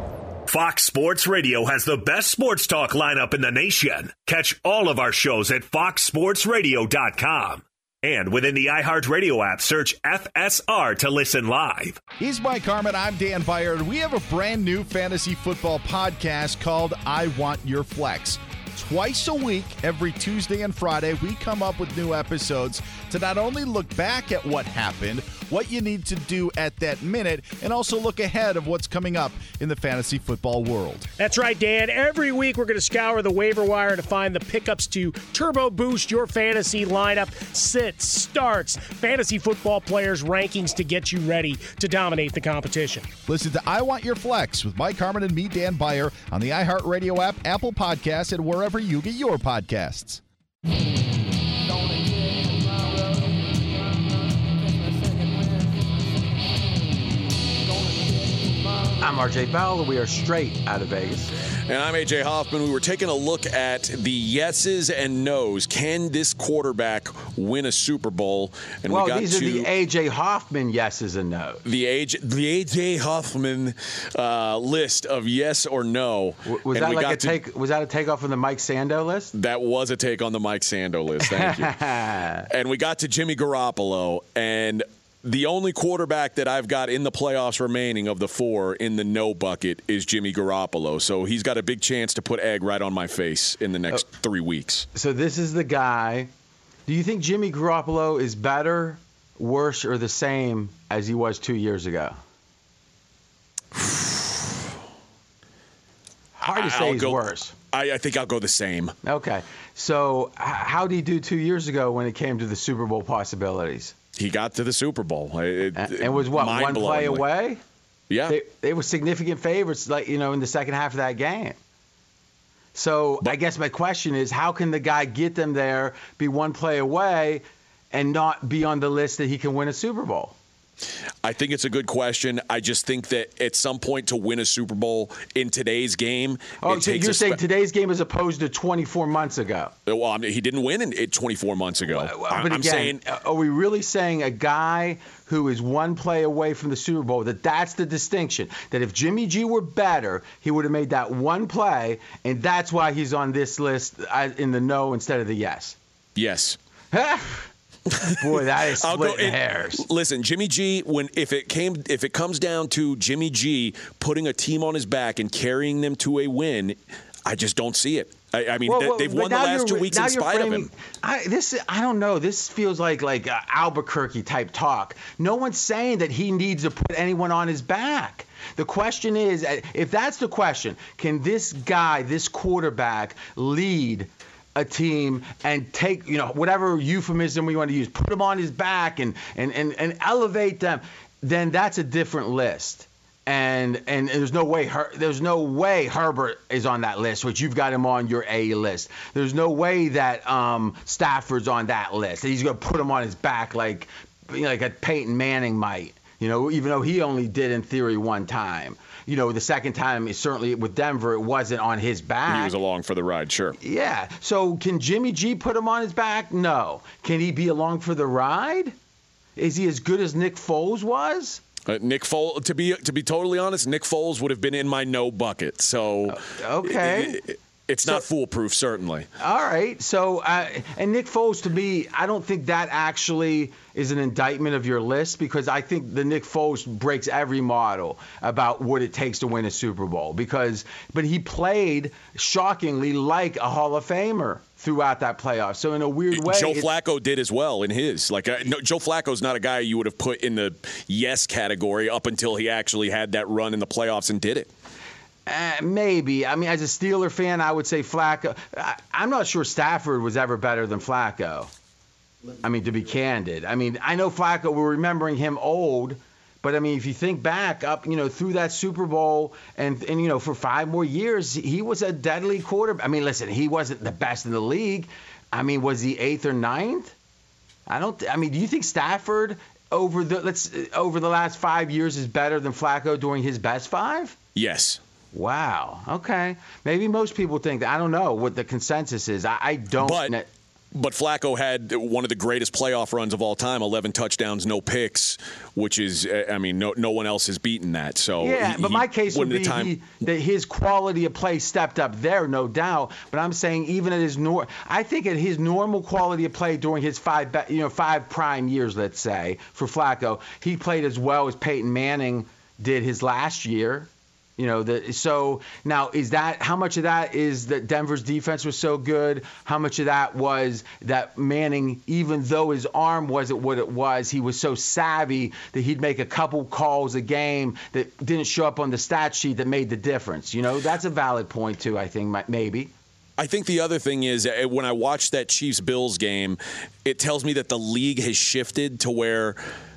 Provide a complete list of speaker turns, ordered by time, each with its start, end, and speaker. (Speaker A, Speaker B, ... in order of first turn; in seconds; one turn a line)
Speaker A: 0.5-12.0
Speaker B: 12.2-31.1
Speaker C: 31.2-43.1
Speaker B: 43.3-50.2
Speaker D: 58.8-61.3
Speaker E: 61.7-69.7
Speaker D: 68.9-71.6
Speaker E: 71.7-77.4
Speaker D: 76.5-79.3
Speaker E: 79.3-81.8
Speaker D: 81.2-82.5
Speaker E: 82.5-94.9
Speaker D: 94.9-96.3
Speaker D: 96.9-102.2
Speaker E: 103.8-104.6
Speaker D: 106.4-107.5
Speaker E: 106.4-109.0
Speaker D: 109.0-114.0
Speaker E: 114.2-117.2
Speaker D: 115.8-117.6
Speaker E: 118.1-118.4
Speaker D: 118.3-121.6
Speaker D: 122.8-130.3
Speaker E: 131.2-137.4
Speaker D: 136.6-139.7
Speaker E: 139.9-143.0
Speaker D: 141.9-155.8
Speaker E: 156.2-156.6
Speaker D: 156.9-157.5
Speaker E: 157.9-170.7
Speaker D: 158.0-159.8
Speaker D: 168.7-212.5
Speaker E: 212.3-213.6
Speaker D: 213.6-218.8
Speaker D: 219.4-221.4
Speaker E: 221.7-229.1
Speaker D: 226.1-227.2
Speaker D: 229.2-246.7
Speaker E: 246.1-254.5
Speaker D: 255.3-261.5
Speaker D: 262.4-276.9
Speaker D: 277.7-284.2
Speaker E: 284.4-284.8
Speaker D: 285.1-290.3
Speaker E: 289.8-290.1
Speaker E: 290.7-299.7
Speaker D: 298.2-332.7
Speaker E: 333.2-339.4